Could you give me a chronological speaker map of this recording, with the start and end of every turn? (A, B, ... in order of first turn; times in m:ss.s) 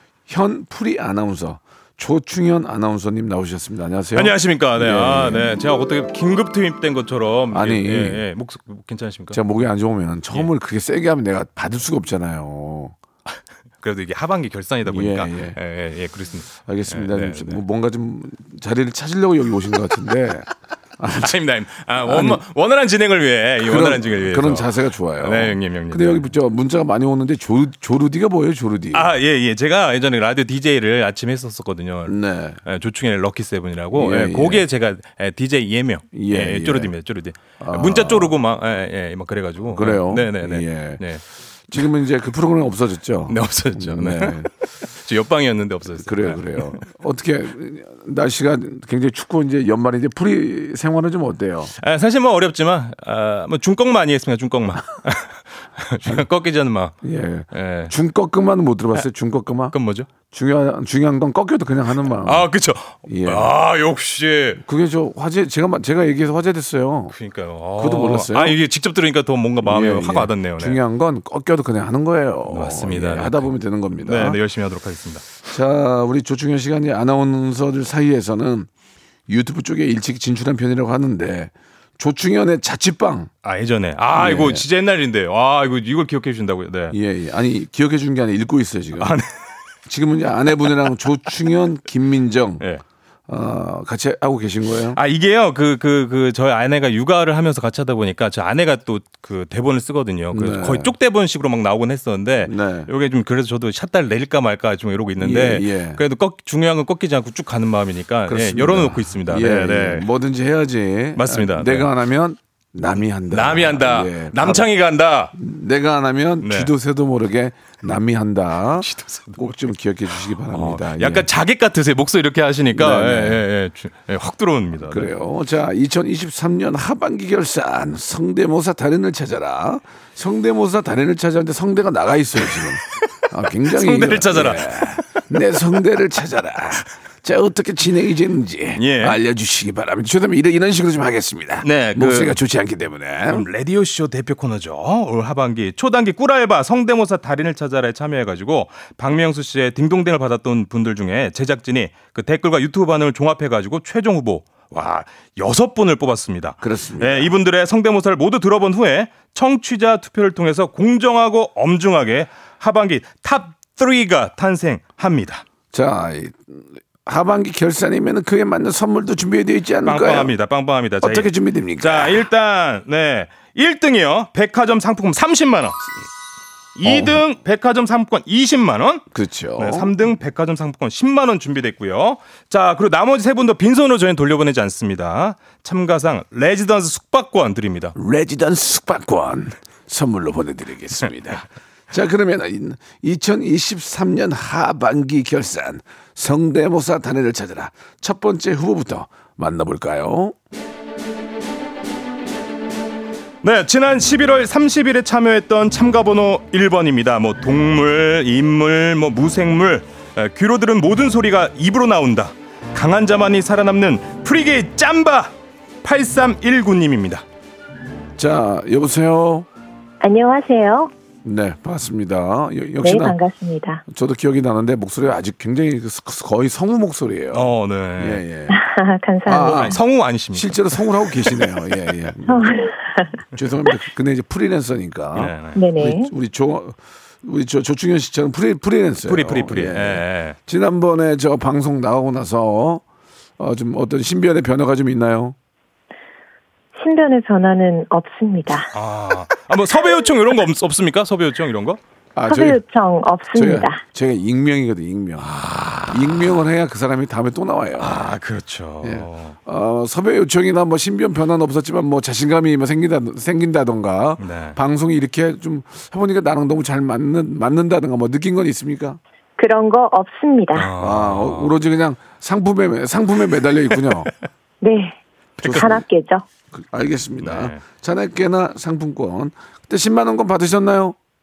0:00.3-0:05.4 A
0:04.2-0:09.4 B
0:07.5-0:08.2 A
0:09.3-0:13.0 A
0:13.8-0:17.6 B
0:14.9-0:15.6 A
0:16.7-0:20.5 A
0:21.0-0:21.3 A
0:21.1-0:26.3 B
0:22.0-0:22.4 A
0:23.6-0:29.1 A
0:28.9-0:41.2 B
0:32.1-0:32.6 A
0:33.9-0:34.6 A
0:36.1-0:36.9 A
0:37.6-0:38.4 A
0:39.7-0:41.0 A
0:41.7-0:44.5 A
0:43.3-0:46.8 B
0:46.0-0:51.7 A
0:51.8-0:57.0 B
0:57.0-0:59.8 A
0:57.5-0:57.9 B
0:59.7-1:00.1 B
1:00.3-1:02.5 A
1:02.2-1:04.6 B
1:03.1-1:03.5 A
1:04.6-1:07.2 A
1:07.1-1:10.8 B
1:07.8-1:08.6 A
1:09.6-1:14.4 A
1:12.5-1:13.5 B
1:14.0-1:15.4 B
1:15.5-1:18.7 A
1:19.3-1:23.3 A
1:23.4-1:27.0 B
1:24.1-1:24.7 A
1:26.9-1:29.2 A
1:29.0-1:29.3 B
1:29.9-1:32.7 A
1:33.3-1:35.0 A
1:34.9-1:50.1 B
1:40.3-1:40.9 A
1:42.4-1:42.9 A
1:45.2-1:46.0 A
1:48.3-1:54.7 A
1:51.2-1:51.9 B
1:53.3-1:55.4 B
1:55.4-2:01.3 A
1:56.4-1:56.7 B
1:58.8-1:59.5 B
2:00.4-2:05.2 B
2:02.8-2:03.4 A
2:04.8-2:23.5 A
2:13.7-2:15.2 B
2:18.8-2:19.2 B
2:21.6-2:22.4 B
2:23.3-2:45.4 B
2:36.6-2:37.4 A
2:45.7-2:50.3 A
2:49.8-2:55.8 B
2:51.0-2:52.2 A
2:56.8-2:59.1 B
2:56.8-2:57.2 A
2:59.1-2:59.9 A
2:59.6-3:08.0 B
3:08.0-3:20.4 A
3:23.4-3:35.3 B
3:35.8-3:37.2 B
3:38.2-3:39.5 A
3:40.0-3:40.9 C
3:41.2-3:43.2 A
3:42.8-3:43.8 C
3:43.9-3:48.6 A
3:47.3-3:48.2 B
3:48.5-3:49.7 C
3:49.3-3:52.7 A
3:49.4-3:51.4 B
3:52.3-3:53.1 C
3:53.3-4:02.8 A
3:55.2-3:55.6 B
3:55.5-3:56.1 C
3:59.0-4:00.4 B
4:03.4-4:05.4 A
4:06.8-4:08.7 C
4:08.7-4:11.8 B
4:12.2-4:12.6 A
4:12.3-4:13.8 C
4:13.3-4:18.1 A
4:15.2-4:16.3 B
4:17.8-4:19.4 B
4:18.8-4:29.0 A
4:24.2-4:24.6 B
4:29.4-4:30.7 C
4:30.6-4:31.5 B
4:30.8-4:34.1 A
4:34.6-4:36.2 C
4:35.4-4:35.8 A
4:36.5-4:41.0 A
4:37.2-4:37.6 B